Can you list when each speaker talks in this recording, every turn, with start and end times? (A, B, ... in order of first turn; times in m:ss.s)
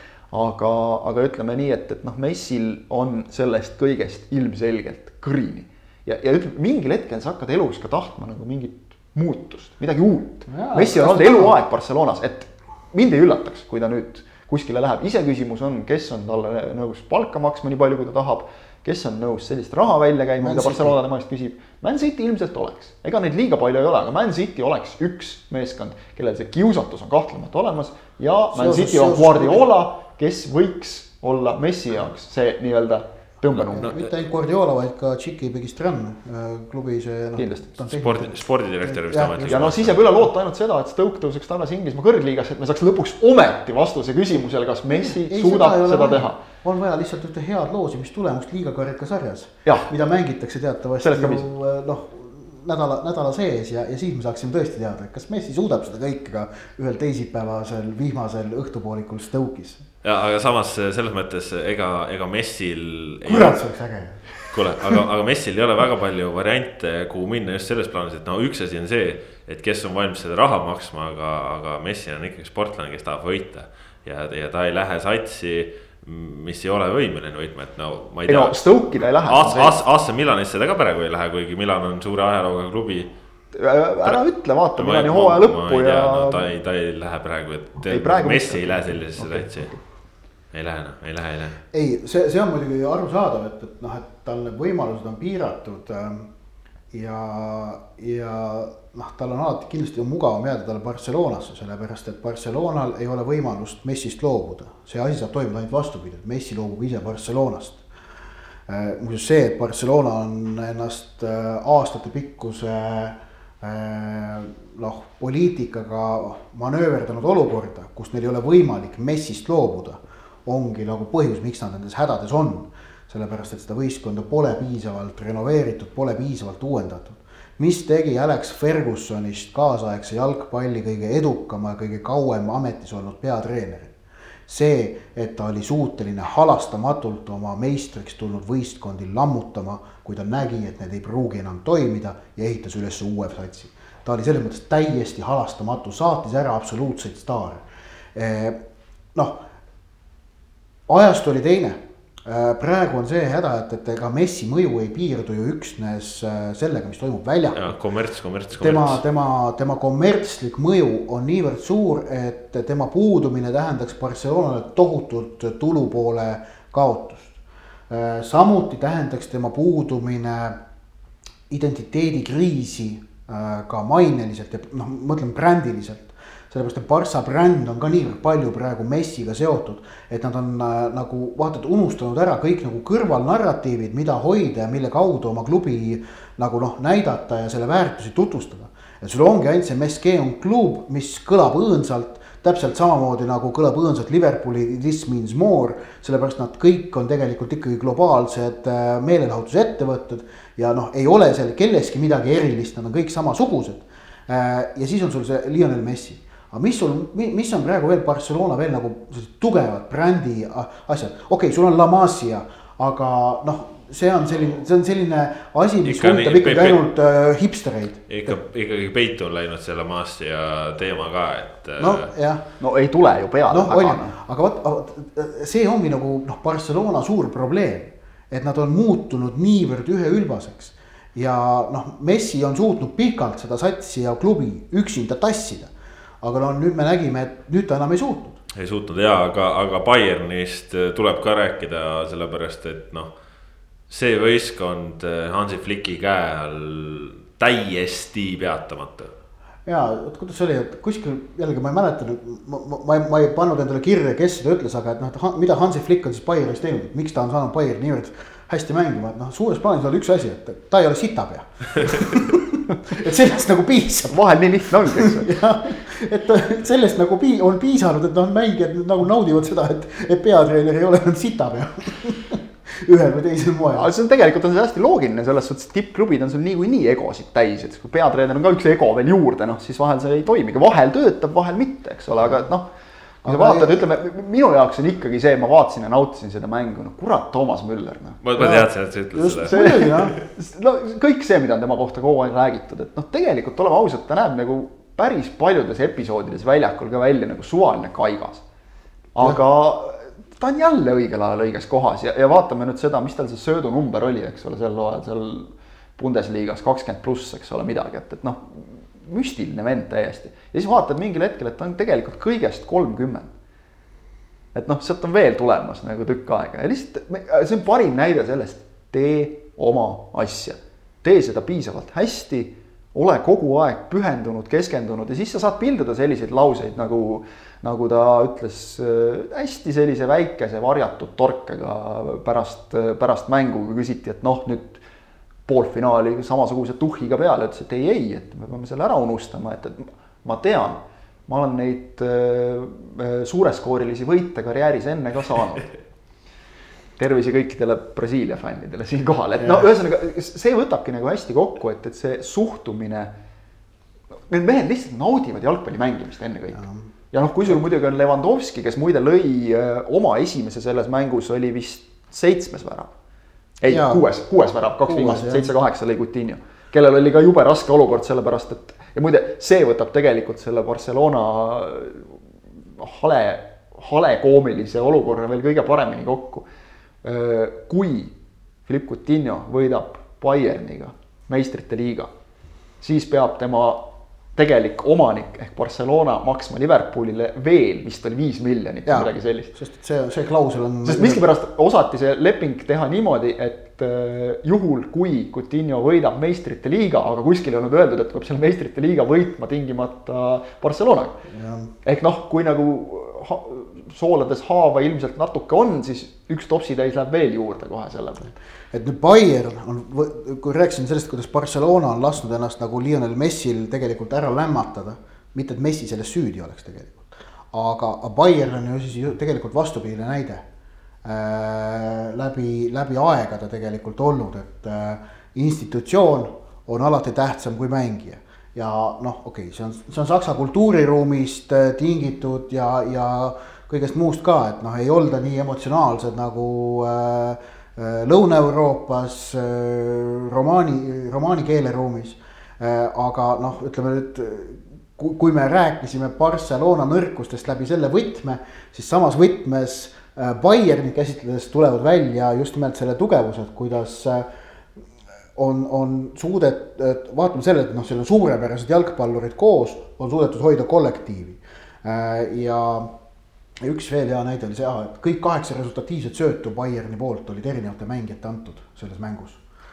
0:00.3-0:33.9 A
0:10.5-0:11.6 B
0:20.4-0:21.0 B
0:28.5-0:29.6 B
0:33.6-0:39.5 B
0:37.4-0:37.7 A
0:37.8-0:40.1 C
0:39.4-0:46.4 A
0:44.9-0:59.8 B
0:49.6-0:49.9 A
0:51.0-0:51.5 A
1:00.0-1:03.6 C
1:03.2-1:05.0 B
1:04.4-1:23.1 C
1:18.3-1:19.8 A
1:23.5-1:26.4 A
1:24.8-1:29.7 C
1:27.9-1:29.8 A
1:30.5-1:31.6 C
1:31.7-1:36.3 B
1:36.9-1:47.8 B
1:48.7-2:13.9 B
2:14.5-2:27.6 B
2:28.1-2:28.6 B
2:29.1-2:29.4 B
2:30.9-2:37.7 B
2:37.5-2:39.0 C
2:38.6-2:47.3 B
2:47.9-2:50.6 B
2:51.5-3:38.4 B
3:35.8-3:36.8 C
3:38.1-3:42.1 C
3:41.8-3:42.4 B
3:42.6-3:44.2 A
3:43.5-3:58.4 B
3:58.5-4:03.1 C
4:03.9-4:09.1 C
4:09.6-4:24.2 B
4:24.1-4:25.4 A
4:24.8-4:33.9 B
4:33.7-4:42.6 A
4:43.2-4:43.8 B
4:43.2-4:48.2 A
4:48.2-4:50.2 C
4:48.4-4:50.1 B
4:49.4-4:58.4 A
4:59.1-5:13.3 A
5:14.5-5:34.8 A
5:35.5-5:45.7 A
5:47.0-5:53.1 A
5:49.4-5:49.7 B
5:54.3-6:02.9 A
5:56.6-5:56.9 B
6:03.6-6:12.2 A
6:03.7-6:04.1 B
6:04.9-6:05.5 B
6:12.8-6:16.4 A
6:17.0-6:18.1 A
6:18.6-6:22.1 A
6:22.8-6:29.5 A
6:28.8-6:31.2 B
6:30.8-6:41.2 A
6:41.3-6:41.7 B
6:41.8-6:48.3 A
6:48.7-7:00.4 B
7:01.0-7:34.2 B
7:35.4-7:42.9 B
7:43.6-7:49.4 B